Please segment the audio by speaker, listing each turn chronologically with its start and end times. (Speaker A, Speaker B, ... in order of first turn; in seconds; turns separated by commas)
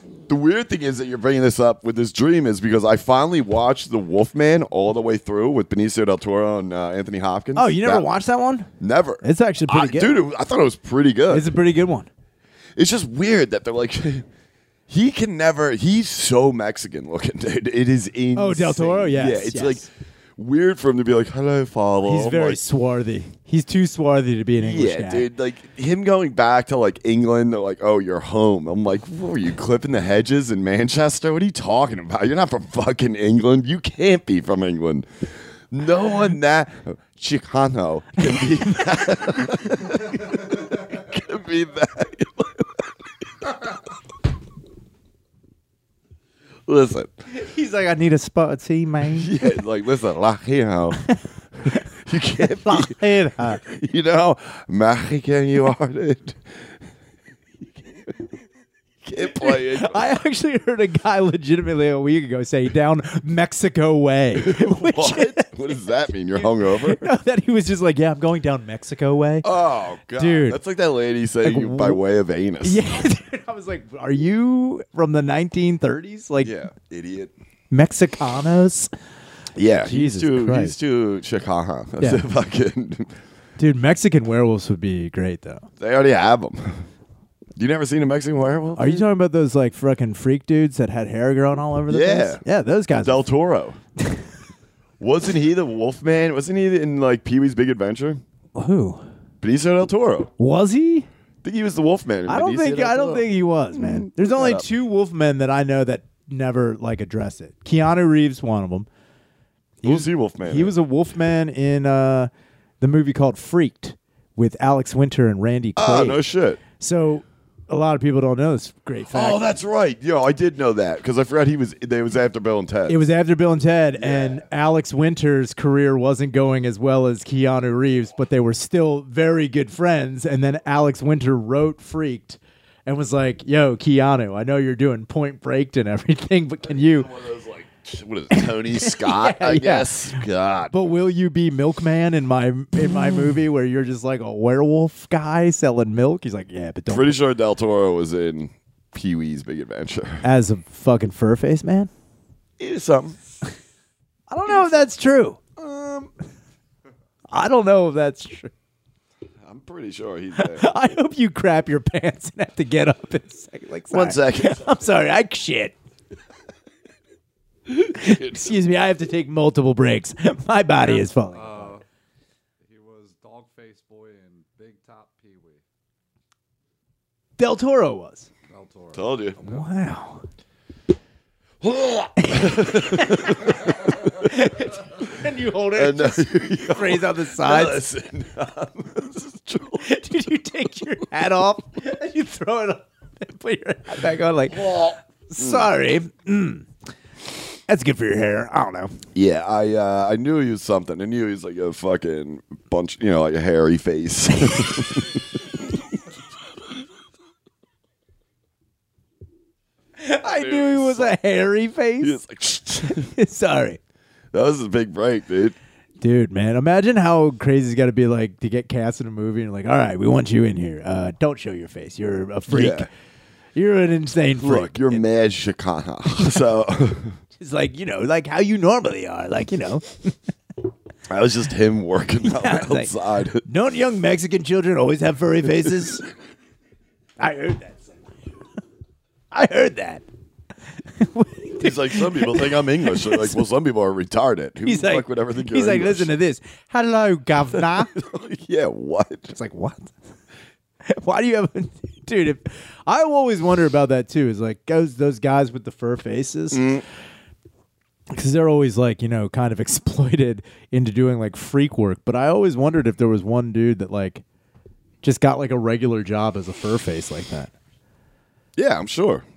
Speaker A: 0.3-8.1, Speaker B: 7.5-8.7, Speaker A: 8.8-11.5, Speaker B: 9.2-10.2, Speaker B: 11.3-12.1, Speaker A: 12.8-14.2, Speaker A: 14.9-22.6, Speaker B: 18.3-19.9, Speaker B: 22.0-25.3, Speaker A: 24.6-43.5, Speaker A: 46.7-47.1, Speaker B: 47.3-49.3, Speaker A: 49.1-51.0, Speaker A: 51.7-56.6, Speaker B: 52.3-53.6, Speaker A: 59.0-60.1, Speaker B: 59.2-65.8, Speaker A: 64.3-67.1, Speaker B: 66.3-69.5, Speaker A: 69.4-72.8, Speaker B: 70.2-70.6, Speaker B: 71.4-72.0, Speaker B: 72.6-76.5, Speaker A: 76.4-77.3, Speaker B: 77.7-78.9, Speaker A: 79.5-83.1, Speaker B: 79.8-80.7, Speaker B: 82.0-82.2, Speaker B: 83.6-85.7, Speaker A: 85.8-86.9, Speaker A: 87.5-89.0, Speaker B: 88.8-93.3, Speaker A: 91.9-92.4, Speaker A: 93.0-93.8, Speaker B: 94.0-94.3, Speaker A: 95.0-98.2, Speaker B: 98.5-99.1, Speaker A: 99.4-100.3, Speaker B: 100.4-101.1, Speaker A: 101.4-104.7, Speaker B: 102.3-108.9, Speaker B: 109.8-112.3, Speaker A: 109.8-110.7, Speaker B: 112.8-116.2, Speaker A: 115.8-116.6, Speaker B: 116.8-119.4, Speaker A: 119.1-123.0, Speaker B: 122.9-137.1, Speaker A: 124.0-124.4, Speaker A: 136.7-140.7, Speaker B: 138.3-147.2, Speaker A: 146.9-150.2, Speaker B: 150.2-151.9, Speaker A: 152.6-153.2, Speaker B: 154.3-155.4, Speaker A: 154.5-154.9, Speaker A: 155.6-156.1, Speaker B: 157.3-158.5, Speaker A: 159.4-160.7, Speaker B: 160.3-165.7, Speaker A: 163.9-164.7, Speaker B: 167.7-171.7, Speaker A: 167.9-168.5, Speaker C: 170.8-171.8, Speaker C: 172.6-175.6, Speaker B: 177.4-178.3, Speaker C: 178.5-179.7, Speaker A: 178.9-179.4, Speaker B: 179.4-180.2, Speaker A: 181.6-184.1, Speaker B: 182.2-187.8, Speaker A: 185.7-189.9, Speaker B: 189.8-196.7, Speaker A: 194.5-195.7, Speaker B: 197.7-199.0, Speaker A: 199.1-206.0, Speaker B: 210.0-212.2, Speaker A: 210.2-211.2, Speaker A: 212.0-213.1, Speaker B: 212.8-213.8, Speaker A: 214.3-215.6, Speaker B: 216.0-222.9, Speaker A: 222.5-222.9, Speaker B: 223.5-225.0, Speaker A: 224.4-227.2, Speaker B: 227.4-230.1, Speaker A: 231.1-233.4, Speaker B: 232.2-236.0, Speaker B: 237.2-238.0, Speaker B: 239.3-240.0, Speaker B: 240.9-243.4, Speaker A: 241.6-246.1, Speaker B: 244.6-247.9, Speaker A: 247.5-249.3, Speaker B: 249.3-249.9, Speaker B: 250.8-256.7, Speaker A: 256.5-256.8, Speaker B: 258.1-264.2, Speaker B: 265.0-267.5, Speaker A: 268.6-269.2